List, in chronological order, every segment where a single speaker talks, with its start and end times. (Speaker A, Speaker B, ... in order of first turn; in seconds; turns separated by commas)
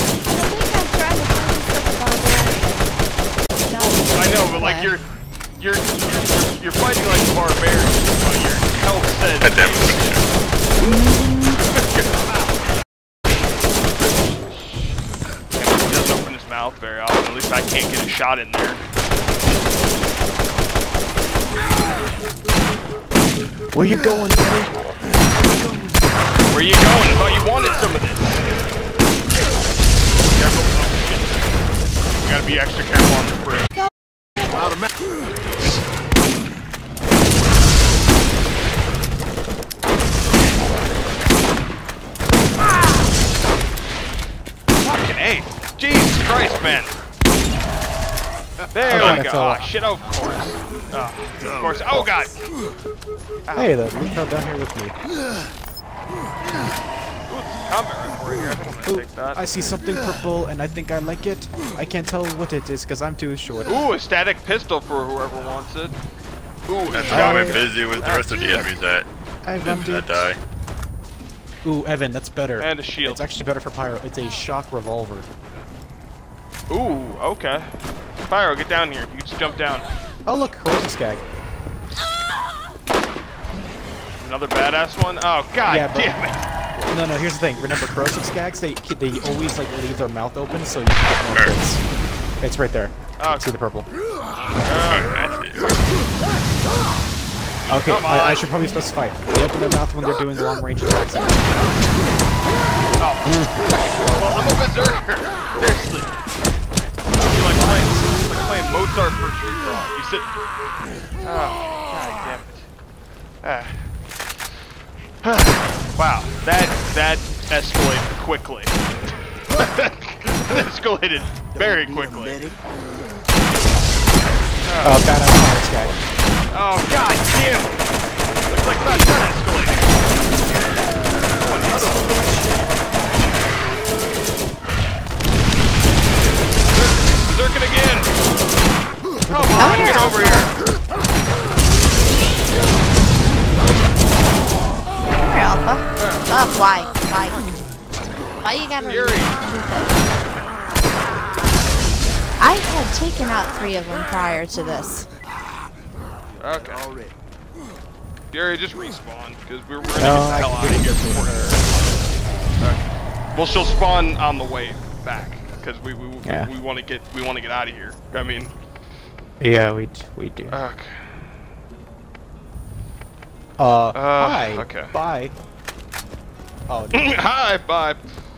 Speaker A: 0.3-3.0, Speaker A: 3.6-4.9, Speaker B: 3.8-5.0, Speaker B: 5.6-10.0, Speaker C: 9.4-10.2, Speaker A: 10.8-11.6, Speaker B: 11.7-12.3, Speaker B: 15.6-18.8, Speaker D: 23.7-24.7, Speaker B: 26.5-28.4, Speaker B: 30.2-31.5, Speaker B: 32.1-33.7, Speaker B: 44.8-47.0, Speaker B: 48.7-52.4, Speaker D: 48.9-49.7, Speaker B: 53.5-53.8, Speaker D: 53.5-55.0, Speaker B: 57.3-59.4, Speaker D: 58.9-63.8, Speaker B: 63.7-66.0, Speaker B: 66.7-68.4, Speaker C: 66.9-69.1, Speaker D: 67.1-67.7, Speaker D: 69.4-70.3, Speaker C: 69.6-70.4, Speaker D: 71.6-75.3, Speaker B: 72.6-73.2, Speaker B: 76.7-77.7, Speaker B: 78.3-79.9, Speaker D: 80.3-81.2, Speaker B: 84.2-86.5, Speaker D: 85.6-86.2, Speaker D: 86.8-91.8, Speaker D: 92.4-93.9, Speaker B: 93.2-93.6, Speaker B: 94.6-95.4, Speaker C: 94.8-95.8, Speaker D: 97.7-101.8, Speaker B: 97.7-98.5, Speaker B: 103.0-106.2, Speaker D: 103.2-104.2, Speaker B: 107.2-110.3, Speaker D: 107.2-108.2, Speaker B: 111.2-112.7, Speaker B: 113.4-113.9, Speaker B: 115.2-118.8, Speaker B: 119.5-122.5, Speaker B: 124.6-125.1, Speaker D: 124.8-126.0, Speaker B: 126.5-127.9, Speaker B: 128.5-130.1, Speaker B: 131.3-132.7, Speaker B: 136.7-138.2, Speaker D: 139.3-140.3, Speaker B: 139.3-140.5, Speaker A: 139.6-140.5, Speaker A: 145.2-147.6, Speaker B: 146.0-146.3, Speaker A: 148.4-150.1, Speaker B: 148.8-149.4, Speaker A: 152.4-155.1, Speaker B: 156.4-156.9, Speaker B: 158.3-161.6, Speaker D: 160.0-161.7, Speaker B: 162.6-168.5, Speaker D: 166.2-166.5, Speaker D: 169.4-170.6, Speaker B: 170.5-171.2, Speaker D: 173.6-175.4, Speaker B: 173.9-174.9, Speaker D: 176.7-177.2, Speaker B: 176.9-178.1